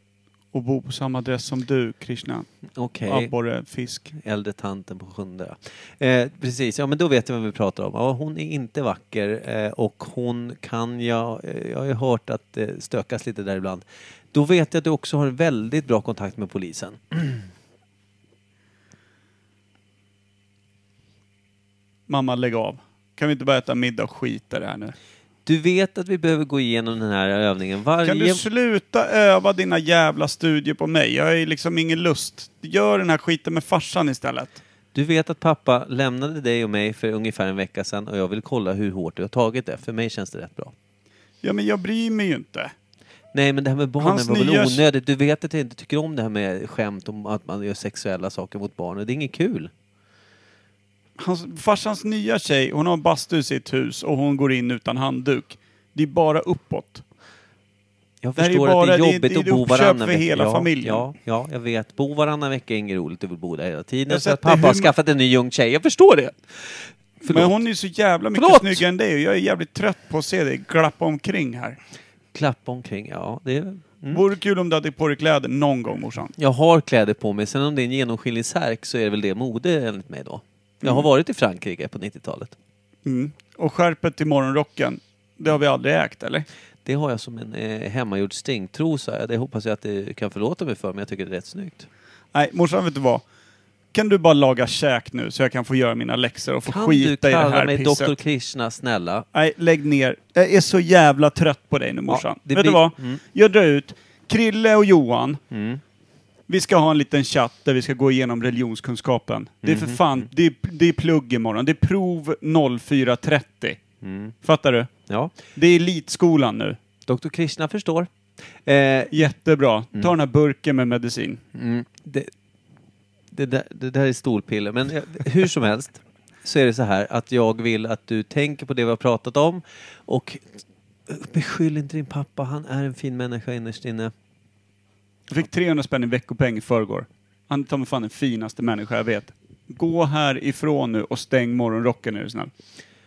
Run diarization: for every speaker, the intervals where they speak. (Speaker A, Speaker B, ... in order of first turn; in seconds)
Speaker A: 0.5-2.5, 3.0-4.1, 22.1-24.9, 28.0-34.6, 41.4-42.7, 44.0-44.8, 51.2-57.0, 58.4-61.0, 64.1-64.9, 67.3-71.8, 74.1-76.3, 83.0-86.4, 92.3-93.2, 93.9-98.2, 99.3-105.4, 106.5-113.8, 114.4-114.9, 115.5-116.8, 119.1-121.4, 135.3-142.5
Speaker B: 2.8-3.3, 4.1-17.4, 25.4-28.4, 34.9-40.7, 43.3-49.7, 58.2-67.6, 68.3-68.8, 72.3-74.2, 76.4-82.5, 86.8-91.9, 96.7-99.3, 102.1-103.2, 105.5-105.8, 109.6-110.2, 114.0-114.3, 115.1-115.3, 117.0-118.1, 118.6-119.1, 121.5-122.3, 123.3-134.1